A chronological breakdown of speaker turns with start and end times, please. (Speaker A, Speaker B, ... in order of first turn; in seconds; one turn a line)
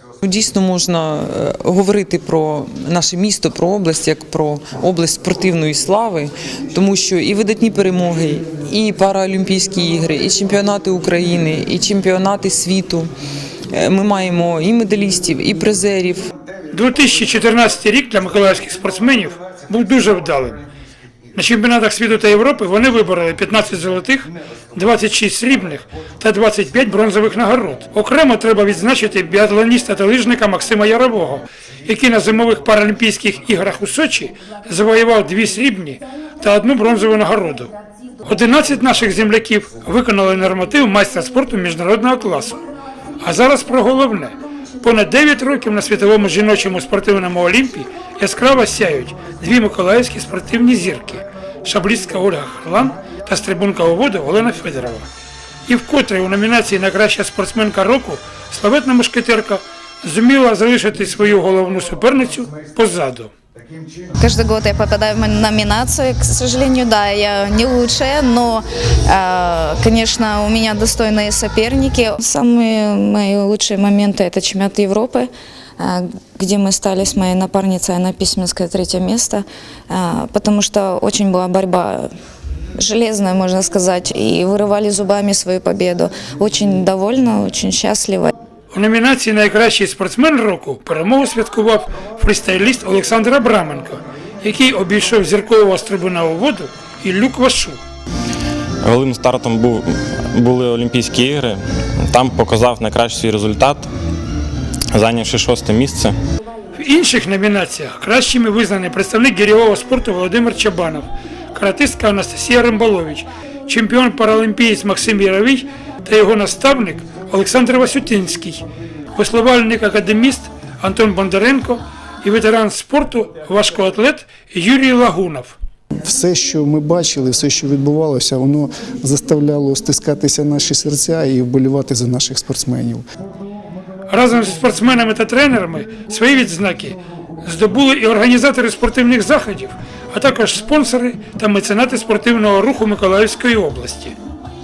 Speaker A: 0.2-13.1
Speaker A: 13.7-16.3
Speaker B: 16.7-20.6
Speaker B: 21.4-37.7
Speaker B: 38.2-42.6
Speaker B: 43.2-55.1
Speaker B: 55.7-63.3
Speaker C: 64.2-82.1
Speaker C: 82.8-88.3
Speaker B: 88.7-97.8
Speaker D: 98.8-101.6
Speaker D: 102.1-103.9
Speaker D: 104.9-106.2
Speaker B: 106.7-118.6
Speaker B: 119.2-125.5
Speaker E: 126.0-133.0
Speaker B: 134.1-144.2